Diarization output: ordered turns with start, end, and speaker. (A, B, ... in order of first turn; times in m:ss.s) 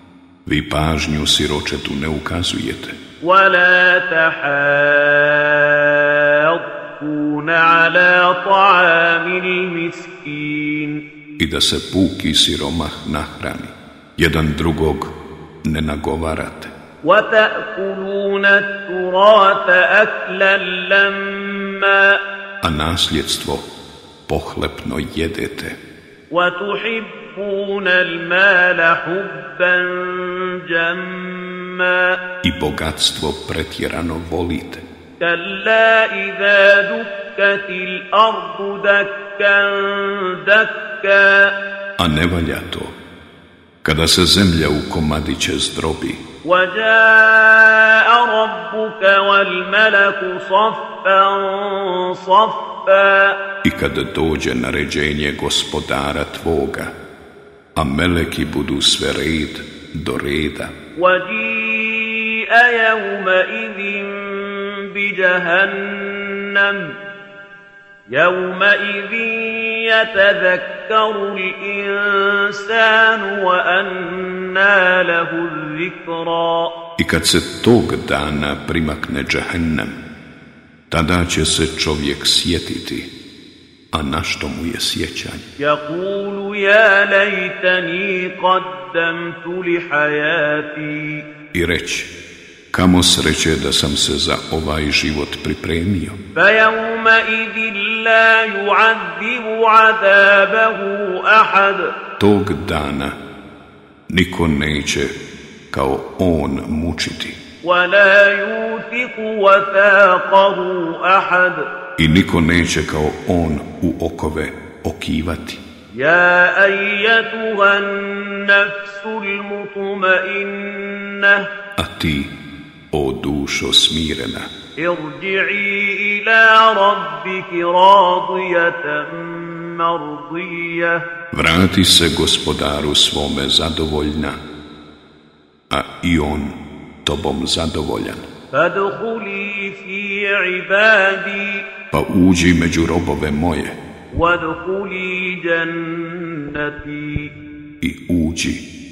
0:00.4-0:02.9 A
0:03.2-0:11.0 B
0:11.4-0:15.1 A
0:15.6-0:16.7 A
0:17.0-0:22.2 B
0:22.6-0:23.7 A
0:24.3-0:25.8 A
0:26.3-0:32.2 B
0:32.4-0:34.8 A
0:35.2-0:41.5 B
0:42.0-0:43.0 A
0:43.8-0:46.2 A
0:46.4-0:53.4 B
0:53.6-0:56.9 A
0:57.8-1:00.7 A
1:01.0-1:06.9 B
1:08.1-1:16.7 B
1:17.0-1:20.0 A
1:20.9-1:23.1 A
1:23.9-1:25.4 A
1:25.6-1:31.2 B
1:31.5-1:32.1 A
1:32.7-1:36.2 A
1:36.4-1:41.9 B
1:42.2-1:43.2 A
1:44.1-1:45.1 A
1:45.7-1:47.4 A
1:47.6-1:51.6 B
1:52.0-1:55.6 A
1:55.9-2:01.5 B
2:01.8-2:02.3 A
2:02.9-2:04.5 A
2:04.8-2:11.0 B
2:11.3-2:14.4 A
2:15.7-2:18.2 A
2:18.5-2:21.6 B
2:21.9-2:23.8 A
2:24.1-2:27.3 B
2:27.8-2:28.6 A